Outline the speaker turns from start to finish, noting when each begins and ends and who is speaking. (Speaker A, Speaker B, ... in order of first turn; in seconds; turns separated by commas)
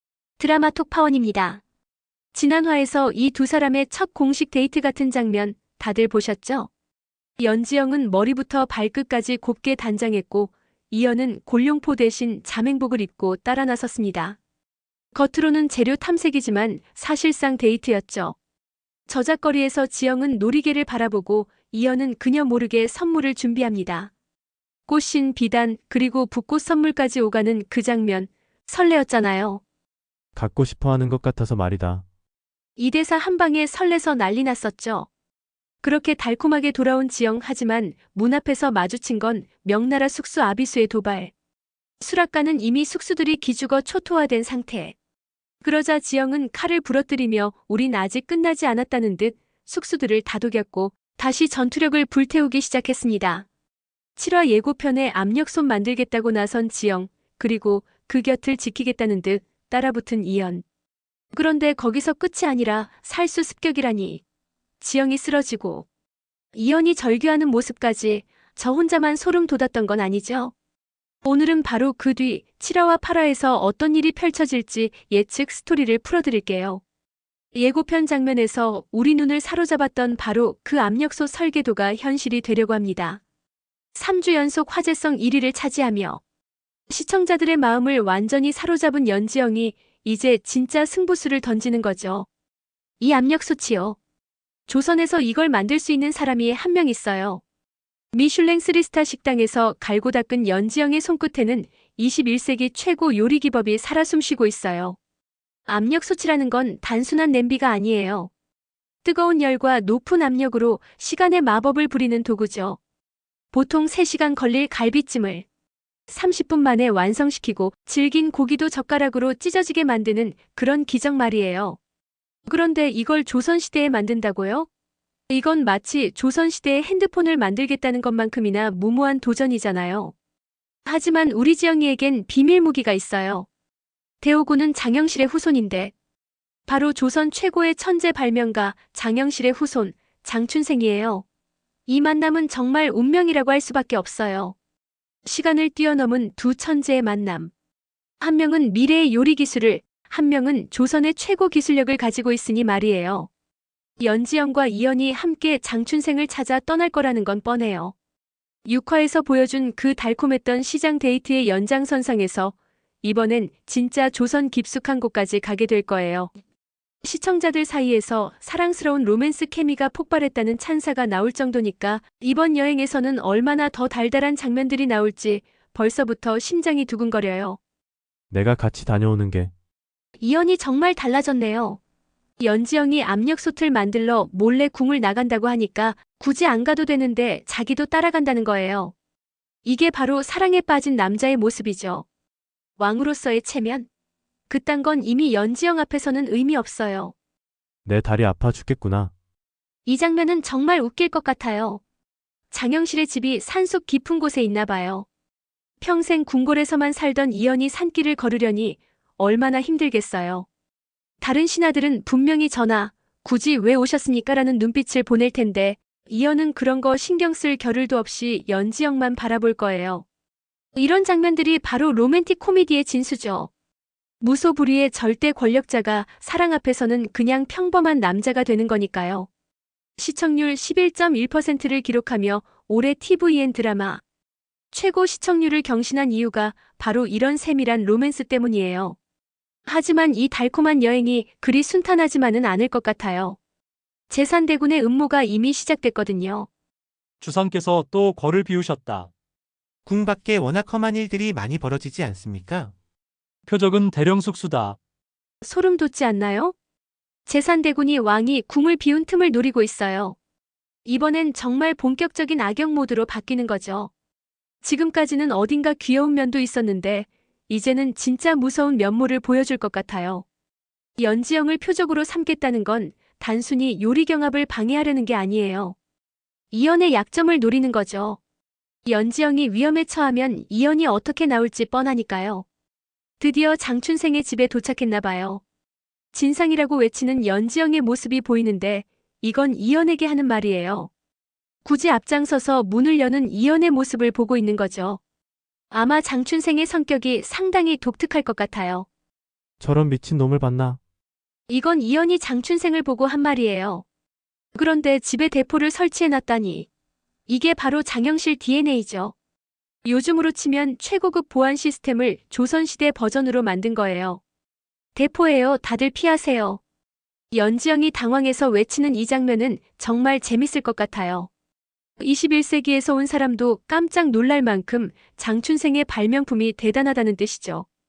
Speaker A: 0.4-1.6, Speaker A: 2.3-6.7, Speaker A: 7.4-14.4, Speaker A: 15.1-18.3, Speaker A: 19.1-24.1, Speaker A: 24.9-29.6, Speaker B: 30.3-32.0, Speaker A: 32.8-35.1, Speaker A: 35.8-41.3, Speaker A: 42.0-44.9, Speaker A: 45.6-53.5, Speaker A: 54.2-60.6, Speaker A: 61.3-64.2, Speaker A: 64.8-65.8, Speaker A: 66.5-70.5, Speaker A: 71.2-76.8, Speaker A: 77.5-83.2, Speaker A: 83.9-86.2, Speaker A: 86.9-92.3, Speaker A: 93.0-94.0, Speaker A: 94.7-97.4, Speaker A: 98.1-105.0, Speaker A: 105.7-108.3, Speaker A: 109.0-112.8, Speaker A: 113.5-115.5, Speaker A: 116.1-121.8, Speaker A: 122.5-124.7, Speaker A: 125.3-130.1, Speaker A: 130.8-133.5, Speaker A: 134.2-135.9, Speaker A: 136.7-141.2, Speaker A: 141.9-144.5, Speaker A: 145.2-147.5, Speaker A: 148.2-153.3, Speaker A: 154.0-157.9, Speaker A: 158.7-166.3, Speaker A: 167.0-177.6, Speaker B: 178.3-179.5, Speaker A: 180.2-181.8, Speaker A: 182.4-188.9, Speaker A: 189.6-192.0, Speaker A: 192.8-193.9, Speaker A: 194.5-197.1, Speaker B: 197.8-199.1, Speaker A: 199.8-201.8, Speaker A: 202.5-205.1, Speaker A: 205.8-210.4, Speaker A: 211.2-220.0, Speaker A: 220.8-223.5, Speaker A: 224.2-229.3, Speaker A: 230.0-234.0, Speaker A: 234.7-239.0, Speaker A: 239.7-243.4, Speaker A: 244.1-246.5, Speaker C: 247.2-249.1, Speaker D: 249.9-252.7, Speaker C: 253.5-254.8, Speaker A: 255.4-256.5, Speaker A: 257.2-260.2, Speaker A: 260.8-263.9, Speaker A: 264.6-270.2, Speaker A: 271.0-275.8, Speaker A: 276.5-278.2, Speaker A: 278.9-282.4, Speaker A: 283.2-285.4, Speaker A: 286.1-290.9, Speaker A: 291.6-295.0, Speaker A: 295.7-298.9, Speaker B: 299.6-300.8, Speaker A: 301.5-303.8, Speaker A: 304.5-306.7, Speaker A: 307.3-309.1, Speaker A: 309.8-314.2, Speaker A: 314.9-316.6, Speaker A: 317.3-321.3, Speaker A: 322.0-327.6